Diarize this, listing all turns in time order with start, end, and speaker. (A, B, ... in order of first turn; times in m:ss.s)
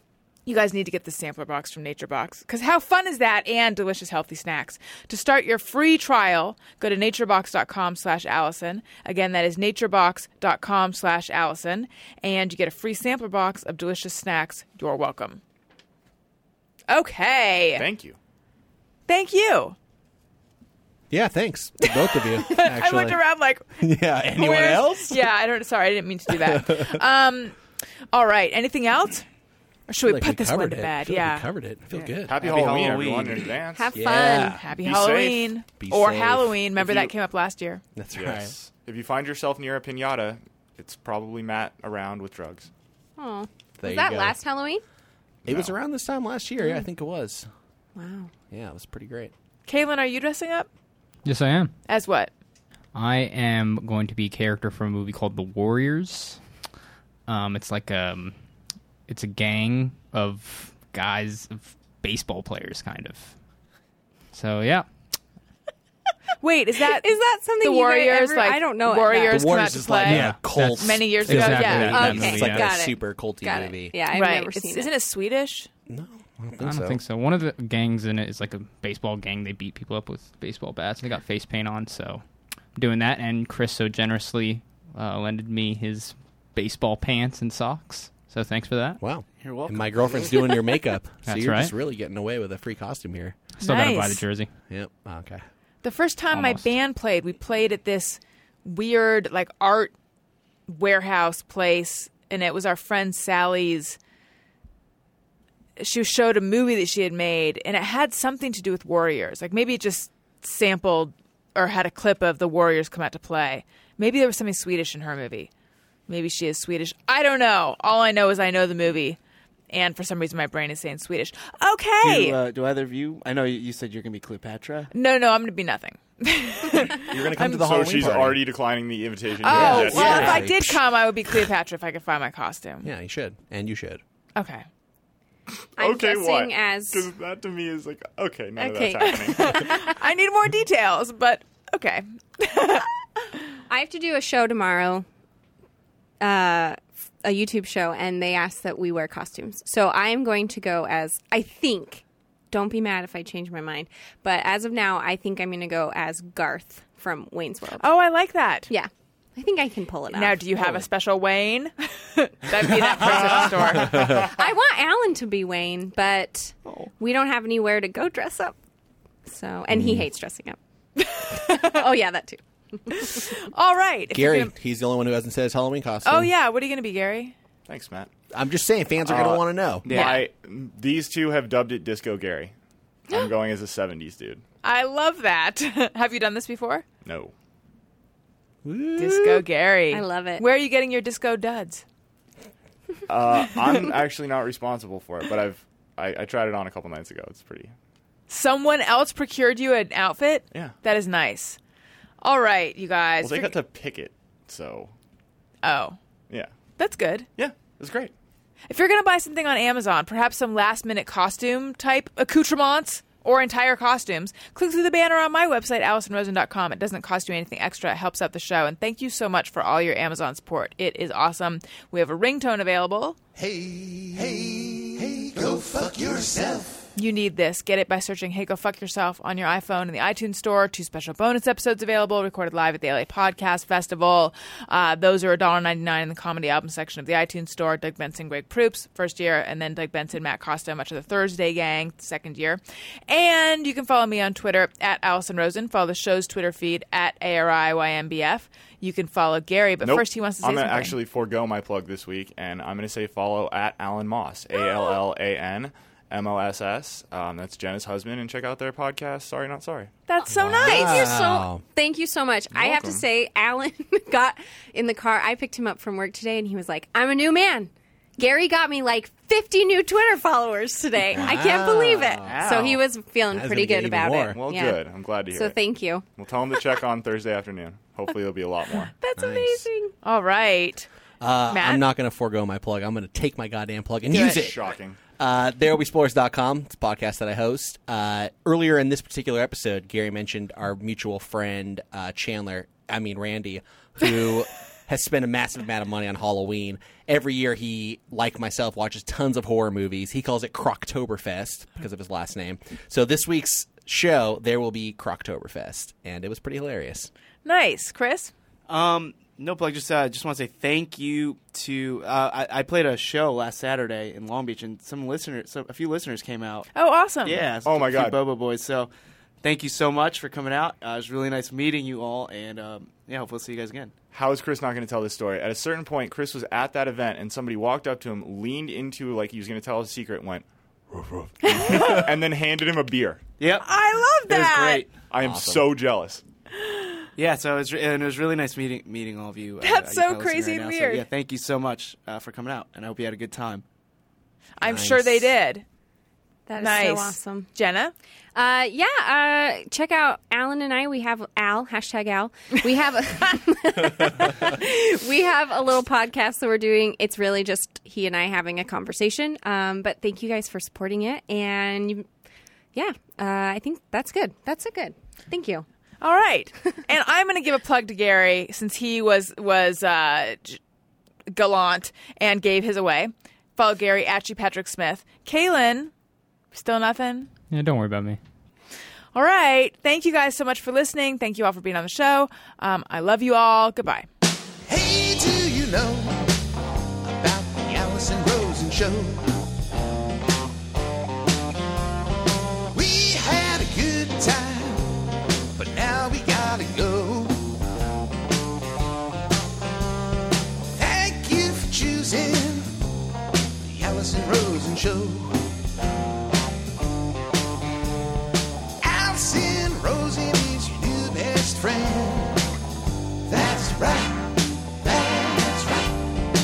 0:00.4-0:15.4 A
0:16.9-0:17.9 A
0:17.7-0:18.2 B
0:19.1-0:19.8 A
0:21.1-0:23.2 C
0:21.8-0:23.8 A
0:23.8-0:25.3 C
0:24.3-0:27.6 A
0:26.3-0:27.0 C
0:28.1-0:29.2 A
0:29.9-0:31.5 A
0:30.0-0:32.4 C
0:31.9-0:33.6 D
0:32.2-0:33.9 B
0:33.7-0:34.6 E
0:33.9-0:34.6 C
0:34.6-0:37.8 A
0:34.7-0:35.6 B
0:35.8-0:37.1 C
0:38.0-0:38.5 C
0:38.1-0:42.7 B
0:43.2-0:44.8 E
0:43.8-0:44.4 C
0:45.4-0:45.7 B
0:45.4-0:47.5 C
0:46.6-0:46.8 E
0:48.0-0:48.3 E
0:48.5-0:49.3 C
0:49.6-0:50.7 A
0:51.2-0:51.7 F
0:51.9-0:52.3 A
0:52.9-0:56.4 F
0:57.3-0:58.3 F
0:59.1-1:03.3 F
1:04.3-1:04.9 F
1:06.4-1:12.2 A
1:06.9-1:09.5 E
1:09.3-1:14.0 C
1:10.0-1:12.7 F
1:11.9-1:14.9 E
1:14.1-1:15.7 A
1:15.9-1:17.0 C
1:16.6-1:22.2 F
1:22.7-1:29.0 F
1:29.0-1:33.4 C
1:29.4-1:30.5 D
1:31.3-1:31.7 F
1:33.6-1:34.2 A
1:33.6-1:34.5 F
1:34.7-1:35.4 C
1:35.8-1:39.9 A
1:36.3-1:36.7 F
1:40.7-1:44.0 A
1:45.8-1:55.5 A
1:56.1-1:59.2 A
1:59.7-2:02.4 A
2:02.0-2:04.9 D
2:04.9-2:07.5 A
2:07.0-2:08.4 C
2:07.1-2:10.4 B
2:09.4-2:12.9 A
2:09.4-2:10.8 C
2:09.9-2:10.4 D
2:12.8-2:14.0 C
2:14.4-2:14.6 A
2:15.8-2:19.7 B
2:15.8-2:17.1 E
2:18.6-2:19.9 E
2:19.1-2:22.9 A
2:23.7-2:25.0 E
2:26.2-2:37.9 E
2:37.8-2:38.7 A
2:38.7-2:40.4 E
2:40.1-2:44.2 A
2:43.8-2:48.6 E
2:43.9-2:44.2 B
2:46.6-2:46.9 D
2:49.2-2:50.6 E
2:49.7-2:50.0 C
2:51.0-2:51.8 A
2:51.3-2:53.3 E
2:52.9-2:54.5 A
2:54.1-2:56.3 C
2:56.0-2:57.3 A
2:57.7-2:58.1 B
2:58.3-2:59.8 C
2:59.0-3:02.5 B
2:59.8-3:00.2 D
2:59.9-3:00.2 A
3:03.1-3:04.4 B
3:04.6-3:06.8 A
3:07.0-3:07.3 B
3:08.6-3:09.4 C
3:09.0-3:11.8 A
3:09.9-3:10.4 E
3:13.1-3:17.7 B
3:18.3-3:21.6 A
3:22.2-3:23.5 A
3:23.2-3:24.9 B
3:25.6-3:26.0 A
3:26.8-3:27.2 A
3:27.4-3:28.1 B
3:28.7-3:43.2 A
3:43.4-3:46.9 G
3:47.0-4:11.0 A
4:09.8-4:19.9 B
4:20.1-4:21.2 A
4:20.3-4:21.6 C
4:20.6-4:36.1 E
4:22.5-4:23.0 B
4:31.1-4:32.4 C
4:32.2-4:32.8 D
4:33.3-4:34.4 C
4:34.3-4:35.6 B
4:36.2-4:38.9 B
4:39.0-4:40.9 A
4:39.2-4:39.7 C
4:39.3-4:39.9 E
4:41.2-4:44.7 C
4:41.5-4:41.8 A
4:44.1-4:45.0 B
4:44.1-4:44.4 A
4:45.2-5:07.1 C
5:07.4-5:08.3 A
5:08.7-5:16.7 D
5:16.7-5:17.4 A
5:17.2-5:18.9 D
5:17.6-5:18.2 B
5:19.4-5:23.9 D
5:24.1-5:30.4 B
5:31.4-5:32.0 A
5:31.4-5:33.2 B
5:33.4-5:33.7 D
5:33.6-5:34.8 A
5:34.3-5:34.9 D
5:35.1-5:36.2 B
5:35.2-5:35.6 C
5:36.6-5:37.0 A
5:37.2-5:43.6 D
5:39.6-5:41.0 A
5:44.6-5:45.6 A
5:44.6-5:45.3 C
5:46.5-5:47.5 E
5:46.6-5:47.9 A
5:48.3-6:02.0 E
6:02.7-6:05.6 E
6:06.0-6:10.6 A
6:11.3-6:15.9 A
6:16.5-6:17.3 A
6:17.5-6:18.2 F
6:19.1-6:24.1 A
6:24.6-6:26.3 G
6:27.0-6:29.3 G
6:32.7-6:34.9 G
6:35.6-6:37.5 G
6:40.8-6:42.7 G
6:43.6-6:45.4 G
6:48.8-6:52.4 G
6:53.3-6:55.9 G